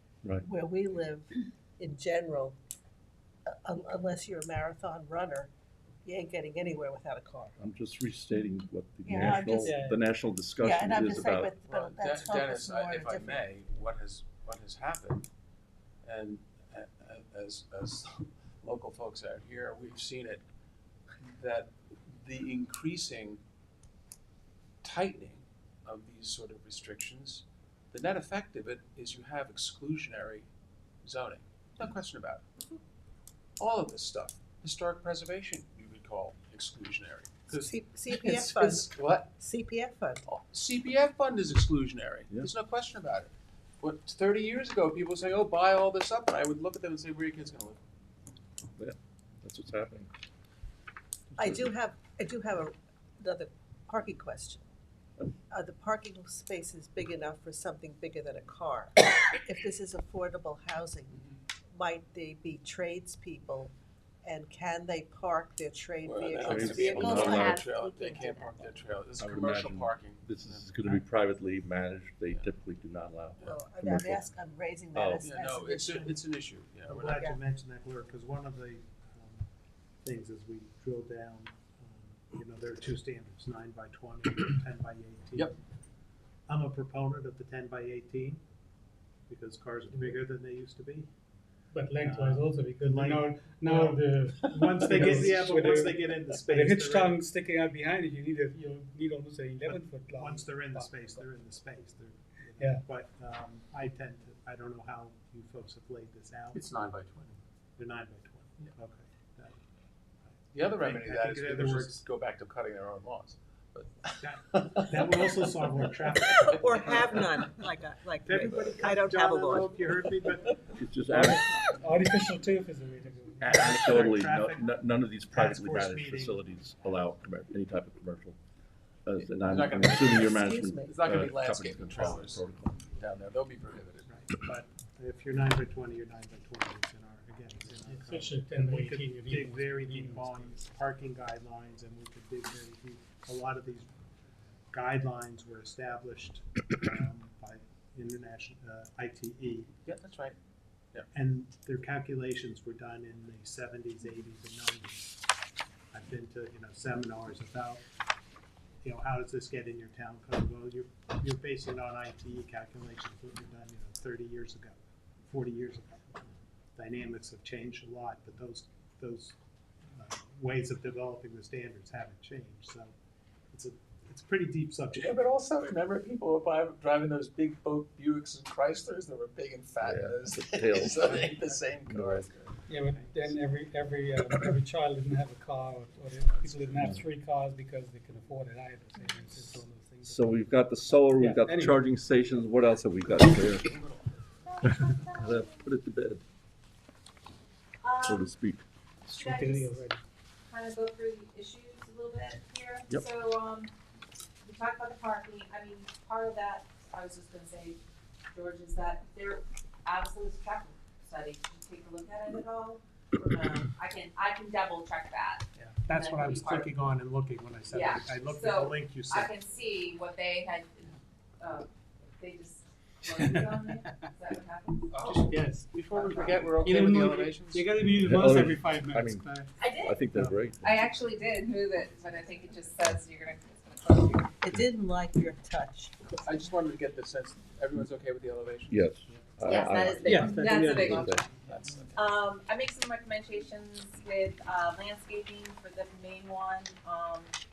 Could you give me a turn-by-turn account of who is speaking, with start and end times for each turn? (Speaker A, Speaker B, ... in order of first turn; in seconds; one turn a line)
Speaker A: 0.4-2.6
Speaker A: 3.5-5.5
Speaker A: 6.0-7.6
Speaker B: 7.6-11.5
Speaker A: 9.1-9.8
Speaker C: 9.7-10.0
Speaker A: 10.6-13.5
Speaker D: 11.7-15.3
Speaker D: 16.0-20.4
Speaker D: 21.2-23.4
Speaker D: 24.8-30.5
Speaker D: 31.0-32.5
Speaker D: 33.6-39.3
Speaker A: 37.5-40.2
Speaker D: 40.3-47.8
Speaker B: 48.8-50.1
Speaker B: 51.4-51.6
Speaker A: 51.4-54.7
Speaker A: 55.5-61.2
Speaker A: 61.7-68.3
Speaker D: 66.0-70.8
Speaker B: 66.5-67.7
Speaker E: 66.9-68.3
Speaker B: 69.2-74.3
Speaker A: 73.4-76.1
Speaker B: 74.9-75.3
Speaker D: 75.2-77.3
Speaker F: 76.9-79.5
Speaker F: 80.0-85.6
Speaker F: 86.5-88.4
Speaker F: 89.3-91.1
Speaker C: 89.9-90.2
Speaker C: 91.7-101.2
Speaker F: 92.0-97.2
Speaker D: 94.5-95.2
Speaker F: 99.7-106.7
Speaker C: 102.6-102.9
Speaker D: 106.5-107.4
Speaker F: 107.8-109.6
Speaker F: 110.2-112.0
Speaker D: 110.5-117.5
Speaker F: 114.2-117.1
Speaker A: 116.5-119.8
Speaker F: 118.2-120.6
Speaker B: 120.8-121.7
Speaker C: 121.1-123.5
Speaker B: 123.4-128.4
Speaker F: 123.4-124.8
Speaker F: 125.3-127.0
Speaker B: 129.1-132.9
Speaker D: 129.2-134.1
Speaker A: 130.3-131.0
Speaker F: 134.1-143.9
Speaker C: 137.8-140.6
Speaker F: 144.7-149.7
Speaker D: 149.9-150.4
Speaker F: 151.1-155.2
Speaker F: 155.9-157.8
Speaker F: 158.8-169.4
Speaker F: 169.9-172.9
Speaker F: 173.5-175.2
Speaker D: 174.9-182.7
Speaker B: 179.8-181.2
Speaker F: 180.9-181.6
Speaker B: 181.9-182.3
Speaker C: 182.7-189.6
Speaker F: 182.9-183.3
Speaker D: 186.2-186.8
Speaker F: 186.3-186.7
Speaker F: 188.9-191.3
Speaker B: 190.0-193.7
Speaker C: 191.1-191.8
Speaker D: 193.0-194.2
Speaker E: 194.4-195.7
Speaker B: 194.7-196.2
Speaker E: 197.8-198.3
Speaker B: 198.0-198.6
Speaker E: 199.1-199.8
Speaker C: 199.1-200.0
Speaker E: 200.5-203.7
Speaker E: 204.4-207.8
Speaker E: 208.3-216.7
Speaker F: 215.6-219.3
Speaker E: 217.7-225.3
Speaker C: 223.2-224.0
Speaker D: 224.9-227.9
Speaker C: 225.3-225.7
Speaker E: 225.9-226.8
Speaker C: 226.6-229.6
Speaker B: 228.0-229.3
Speaker E: 229.6-234.3
Speaker B: 229.8-230.9
Speaker C: 230.1-230.4
Speaker F: 231.8-232.8
Speaker A: 234.4-236.2
Speaker D: 236.2-238.9
Speaker B: 238.7-241.3
Speaker F: 239.1-239.9
Speaker E: 239.4-241.3
Speaker C: 240.1-241.3
Speaker F: 240.7-241.6
Speaker D: 241.3-242.1
Speaker E: 241.9-247.3